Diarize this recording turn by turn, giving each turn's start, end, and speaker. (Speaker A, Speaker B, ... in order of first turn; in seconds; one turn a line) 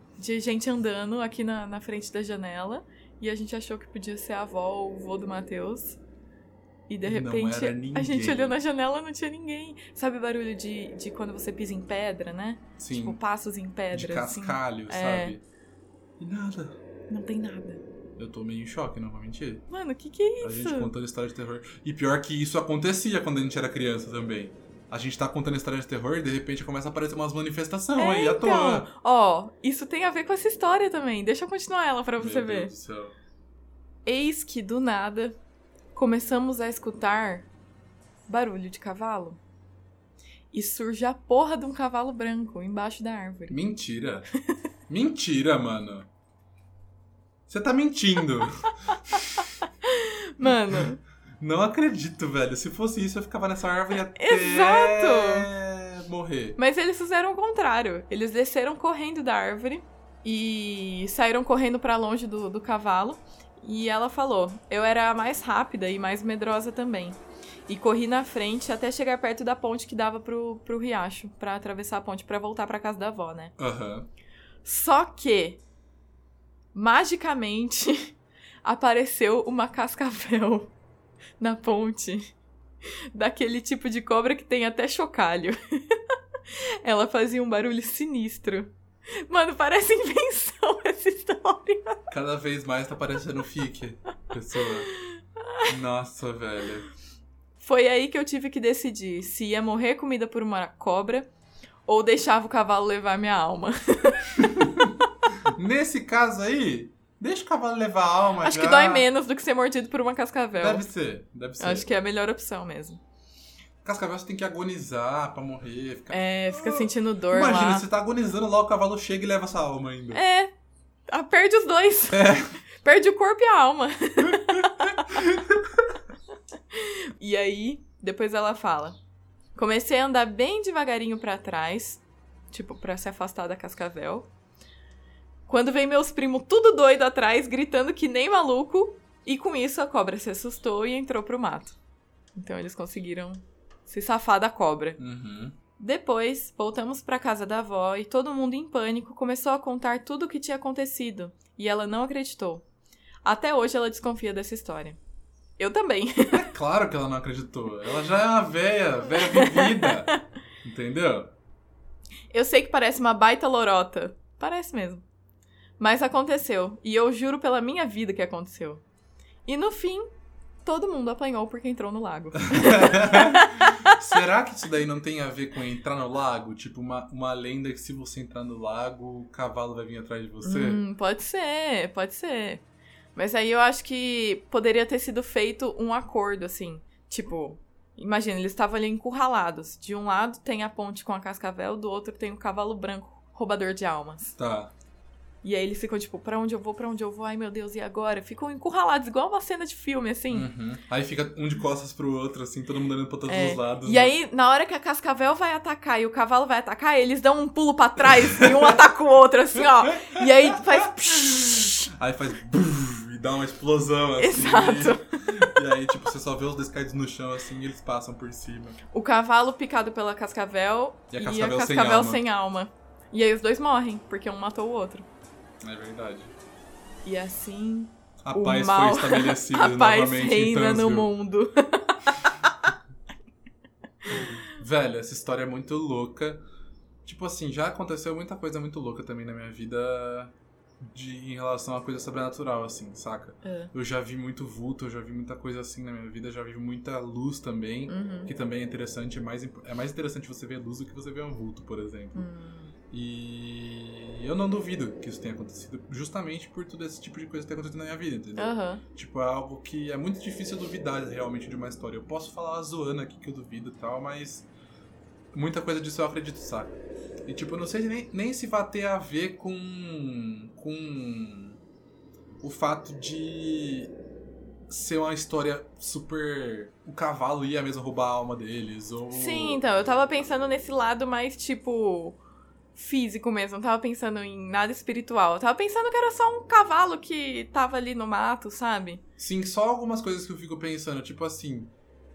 Speaker A: 0.2-6.0
Speaker A: 6.9-15.4
Speaker B: 7.1-8.6
Speaker B: 12.8-13.2
Speaker B: 13.9-15.4
Speaker B: 16.2-16.8
Speaker A: 17.1-17.8
Speaker B: 18.2-19.6
Speaker A: 19.7-20.9
Speaker B: 20.4-28.9
Speaker A: 28.0-32.7
Speaker B: 32.2-33.2
Speaker A: 34.1-35.4
Speaker A: 36.0-37.5
Speaker A: 38.3-39.4
Speaker A: 40.5-43.6
Speaker B: 43.5-44.3
Speaker B: 44.9-46.1
Speaker B: 47.5-49.5
Speaker A: 49.6-51.0
Speaker B: 50.4-50.9
Speaker B: 51.4-56.6
Speaker A: 54.1-55.5
Speaker A: 56.6-73.5
Speaker B: 73.6-74.1
Speaker A: 74.7-75.6
Speaker A: 76.7-80.7
Speaker A: 81.4-82.3
Speaker A: 82.8-92.1
Speaker B: 92.1-94.9
Speaker A: 94.9-95.7
Speaker B: 95.7-96.9
Speaker A: 97.6-101.3
Speaker A: 101.9-104.7
Speaker B: 104.4-109.1
Speaker A: 108.4-110.8
Speaker B: 110.6-111.9
Speaker A: 111.6-113.0
Speaker B: 113.8-120.2
Speaker A: 116.1-117.9
Speaker A: 120.1-120.5
Speaker A: 121.1-125.3
Speaker B: 122.1-122.6
Speaker B: 124.3-125.8
Speaker A: 126.7-129.0
Speaker A: 129.6-134.3
Speaker A: 135.5-141.8
Speaker A: 142.3-145.0
Speaker B: 145.0-145.6
Speaker A: 145.8-152.7
Speaker A: 153.2-155.0
Speaker A: 155.6-156.5
Speaker B: 156.3-161.3
Speaker A: 159.2-160.2
Speaker A: 162.3-165.1
Speaker A: 165.8-168.8
Speaker A: 169.5-170.1
Speaker A: 170.7-174.0
Speaker B: 172.4-180.8
Speaker A: 180.4-182.6
Speaker A: 183.2-194.4
Speaker B: 194.4-194.7
Speaker A: 195.4-200.5
Speaker B: 200.3-204.2
Speaker A: 203.3-211.9
Speaker B: 208.4-208.7
Speaker B: 210.0-218.8
Speaker A: 214.2-215.5
Speaker A: 218.9-225.1
Speaker B: 221.1-222.2
Speaker B: 225.6-226.3
Speaker A: 227.1-232.7
Speaker B: 228.2-231.1
Speaker A: 234.1-234.4
Speaker B: 234.2-236.4
Speaker B: 237.1-252.3
Speaker A: 243.4-243.7
Speaker A: 247.9-248.3
Speaker A: 252.2-252.8
Speaker B: 252.9-264.5
Speaker A: 258.4-258.8
Speaker B: 265.3-271.6
Speaker B: 272.4-273.9
Speaker B: 274.7-279.6
Speaker A: 279.1-282.2
Speaker A: 282.8-289.0
Speaker B: 289.2-291.7